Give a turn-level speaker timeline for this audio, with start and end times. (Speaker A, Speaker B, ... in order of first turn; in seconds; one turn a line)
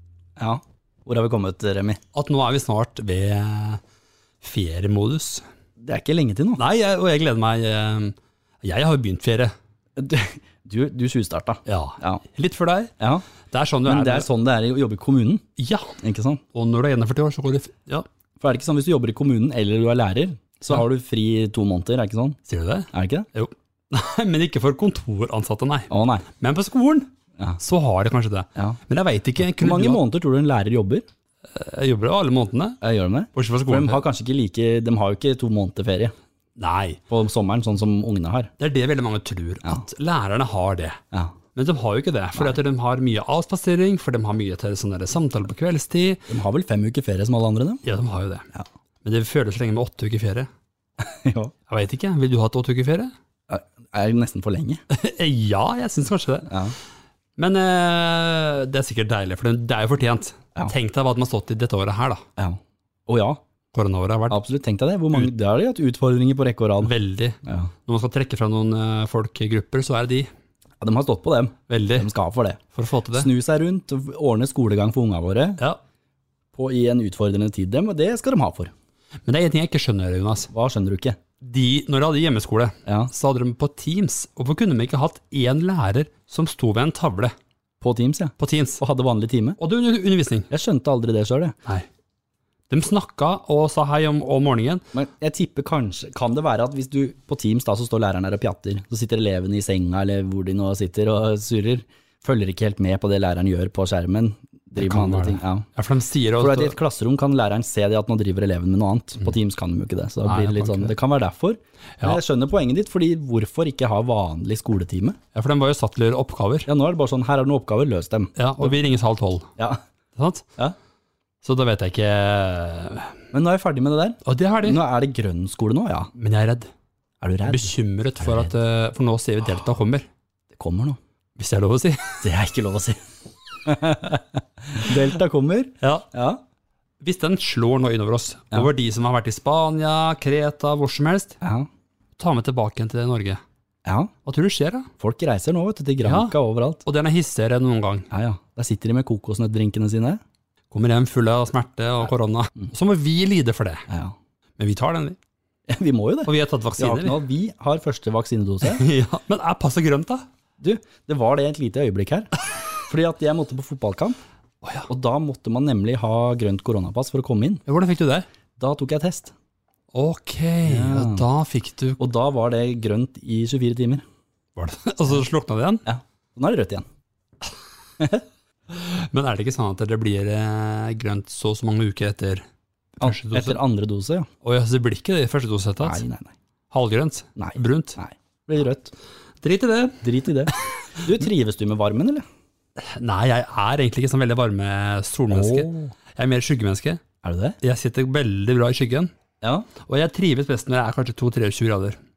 Speaker A: 0.4-2.0
Speaker B: 2.1-3.8
Speaker B: 4.4-5.4
Speaker A: 5.8-6.6
Speaker B: 6.6-9.5
Speaker A: 10.0-12.2
Speaker B: 11.7-12.9
Speaker A: 13.0-13.2
Speaker B: 13.5-14.3
Speaker A: 13.8-15.4
Speaker B: 15.6-16.0
Speaker A: 16.0-16.4
Speaker B: 16.5-18.1
Speaker A: 18.4-22.4
Speaker B: 22.5-30.0
Speaker A: 22.9-23.3
Speaker A: 25.9-26.2
Speaker A: 29.6-31.0
Speaker B: 31.5-32.8
Speaker A: 32.8-36.1
Speaker B: 33.3-34.0
Speaker B: 36.6-37.0
Speaker A: 37.1-38.5
Speaker B: 38.6-41.0
Speaker B: 41.5-46.3
Speaker A: 46.3-47.8
Speaker B: 47.8-48.5
Speaker B: 49.0-50.5
Speaker A: 51.0-51.5
Speaker B: 51.7-53.1
Speaker A: 53.5-54.8
Speaker B: 54.9-56.7
Speaker A: 56.5-56.8
Speaker B: 57.4-62.2
Speaker A: 62.4-63.4
Speaker B: 63.7-64.4
Speaker A: 64.3-66.9
Speaker B: 66.8-70.3
Speaker A: 67.4-67.7
Speaker A: 70.8-72.6
Speaker B: 71.7-72.1
Speaker B: 72.7-73.3
Speaker A: 73.1-75.6
Speaker A: 76.5-78.7
Speaker B: 79.2-80.5
Speaker A: 80.5-81.2
Speaker B: 81.4-87.3
Speaker A: 82.8-83.1
Speaker A: 87.8-89.6
Speaker B: 88.4-88.8
Speaker B: 89.6-90.5
Speaker A: 90.5-91.5
Speaker B: 92.7-94.8
Speaker A: 94.9-105.7
Speaker B: 104.8-106.8
Speaker A: 106.4-115.2
Speaker B: 110.2-110.9
Speaker B: 115.3-116.7
Speaker A: 116.7-118.7
Speaker B: 118.3-119.5
Speaker B: 120.1-120.5
Speaker B: 121.4-123.2
Speaker A: 123.3-126.1
Speaker B: 124.2-124.8
Speaker B: 126.1-126.7
Speaker A: 127.2-128.5
Speaker B: 127.4-130.1
Speaker A: 130.5-131.0
Speaker B: 131.4-132.2
Speaker A: 132.2-133.0
Speaker A: 133.6-136.4
Speaker B: 135.8-136.1
Speaker B: 137.0-141.4
Speaker A: 141.4-141.7
Speaker B: 142.2-143.4
Speaker A: 143.8-144.1
Speaker B: 144.2-144.9
Speaker A: 145.0-146.8
Speaker B: 146.0-148.1
Speaker A: 148.1-150.2
Speaker B: 150.7-153.9
Speaker A: 153.9-154.1
Speaker B: 154.6-155.2
Speaker A: 155.7-158.8
Speaker B: 156.2-157.2
Speaker B: 158.6-160.3
Speaker A: 160.6-164.2
Speaker B: 164.6-164.9
Speaker A: 164.9-167.6
Speaker B: 167.7-168.3
Speaker A: 168.6-169.3
Speaker B: 169.9-172.0
Speaker A: 170.6-171.2
Speaker A: 172.0-174.0
Speaker B: 174.6-175.8
Speaker A: 175.8-176.8
Speaker B: 178.7-182.4
Speaker B: 183.0-183.6
Speaker A: 183.0-184.3
Speaker B: 184.4-186.0
Speaker A: 185.8-186.3
Speaker B: 186.7-188.0
Speaker A: 187.4-188.9
Speaker B: 189.4-191.0
Speaker A: 190.0-192.2
Speaker B: 192.8-197.0
Speaker A: 195.3-195.9
Speaker A: 197.2-197.6
Speaker B: 197.6-199.1
Speaker A: 199.4-199.7
Speaker B: 199.8-202.0